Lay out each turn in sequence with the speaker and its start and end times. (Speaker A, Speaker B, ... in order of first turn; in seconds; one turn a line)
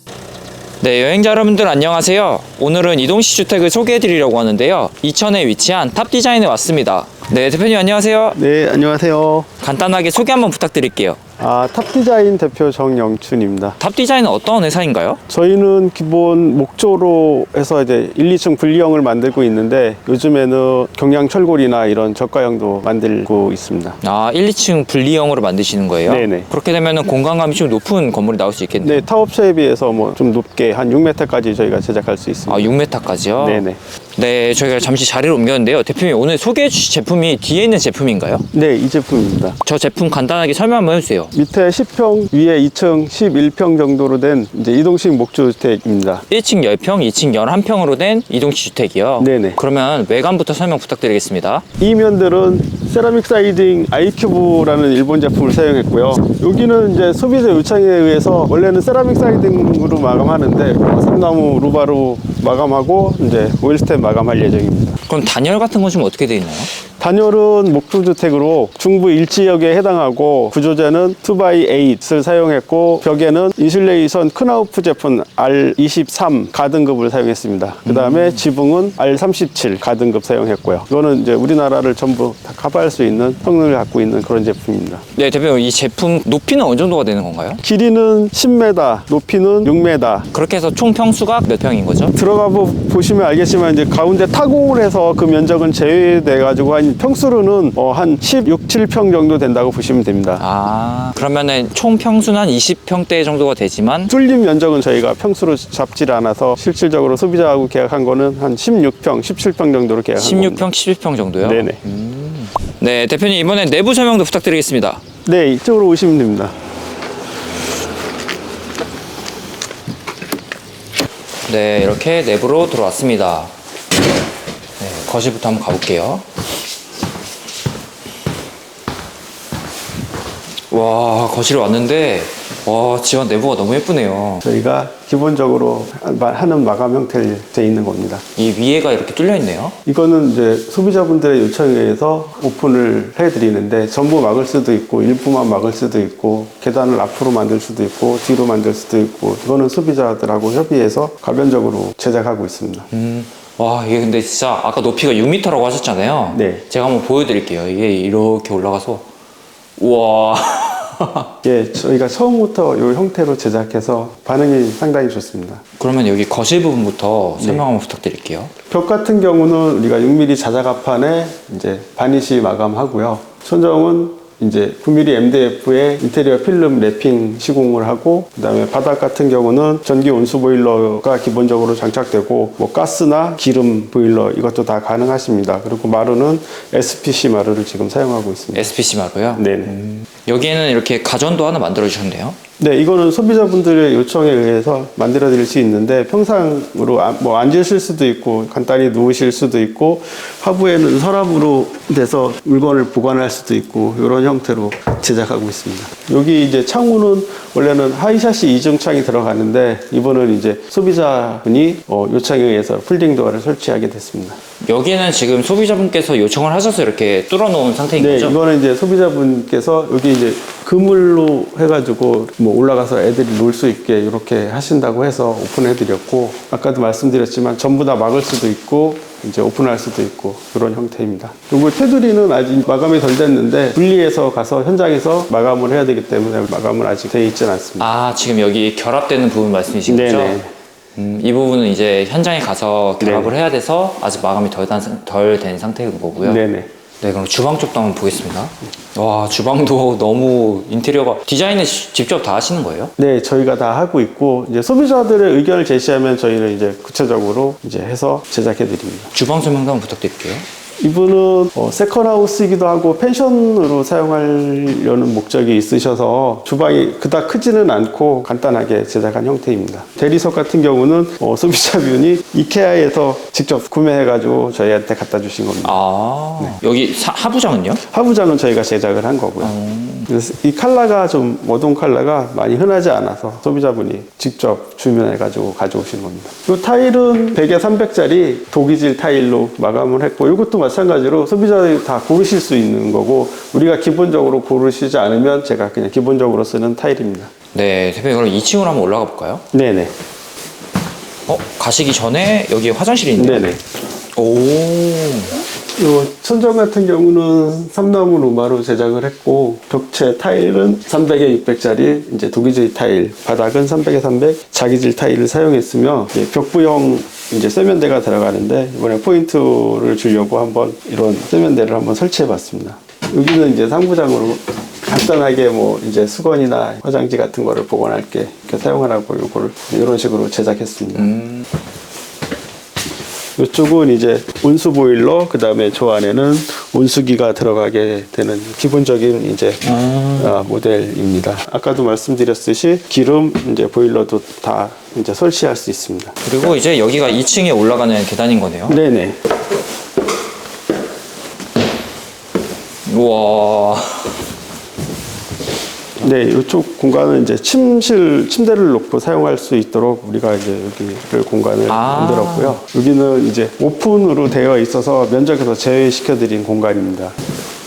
Speaker A: 0.8-8.4
Speaker B: 8.3-9.5
Speaker A: 9.6-11.2
Speaker B: 11.4-13.8
Speaker A: 13.8-15.2
Speaker B: 15.3-24.0
Speaker A: 24.0-29.1
Speaker B: 26.1-26.5
Speaker B: 28.8-32.7
Speaker A: 32.5-33.7
Speaker B: 33.4-33.8
Speaker A: 34.2-38.5
Speaker B: 38.5-39.6
Speaker A: 39.6-41.3
Speaker B: 41.3-46.2
Speaker A: 46.3-51.6
Speaker B: 49.2-49.6
Speaker B: 51.8-65.0
Speaker A: 65.1-66.7
Speaker B: 67.0-85.0
Speaker A: 77.9-78.4
Speaker A: 85.1-87.6
Speaker B: 87.6-90.3
Speaker A: 90.3-92.2
Speaker B: 92.1-100.4
Speaker A: 100.4-104.1
Speaker B: 104.1-110.7
Speaker A: 110.2-115.0
Speaker B: 111.4-111.8
Speaker B: 115.3-116.5
Speaker A: 121.5-123.5
Speaker A: 124.8-126.2
Speaker A: 130.7-134.4
Speaker B: 134.4-138.2
Speaker A: 138.4-139.8
Speaker B: 139.9-152.9
Speaker A: 152.9-159.1
Speaker B: 156.3-156.6
Speaker A: 159.8-161.3
Speaker B: 161.4-165.6
Speaker A: 165.8-168.5
Speaker B: 167.4-167.6
Speaker B: 168.7-188.7
Speaker A: 188.5-192.4
Speaker B: 189.3-189.8
Speaker B: 192.6-214.4
Speaker A: 214.7-218.4
Speaker B: 218.0-237.9
Speaker A: 237.8-240.4
Speaker B: 239.9-240.5
Speaker A: 241.0-246.4
Speaker B: 243.0-243.3
Speaker B: 246.2-246.7
Speaker A: 247.0-252.9
Speaker B: 253.0-259.1
Speaker A: 259.1-260.5
Speaker B: 260.8-275.8
Speaker A: 275.6-277.8
Speaker B: 277.9-279.5
Speaker A: 279.4-280.1
Speaker B: 280.1-297.3
Speaker A: 297.5-299.4
Speaker B: 299.5-299.9
Speaker A: 301.3-303.5
Speaker B: 303.2-303.6
Speaker A: 304.2-305.4
Speaker B: 305.8-331.1
Speaker A: 330.9-331.5
Speaker B: 333.4-346.2
Speaker A: 339.7-340.4
Speaker A: 346.2-348.8
Speaker B: 348.7-349.2
Speaker A: 352.9-354.2
Speaker B: 356.0-367.1
Speaker A: 361.7-362.6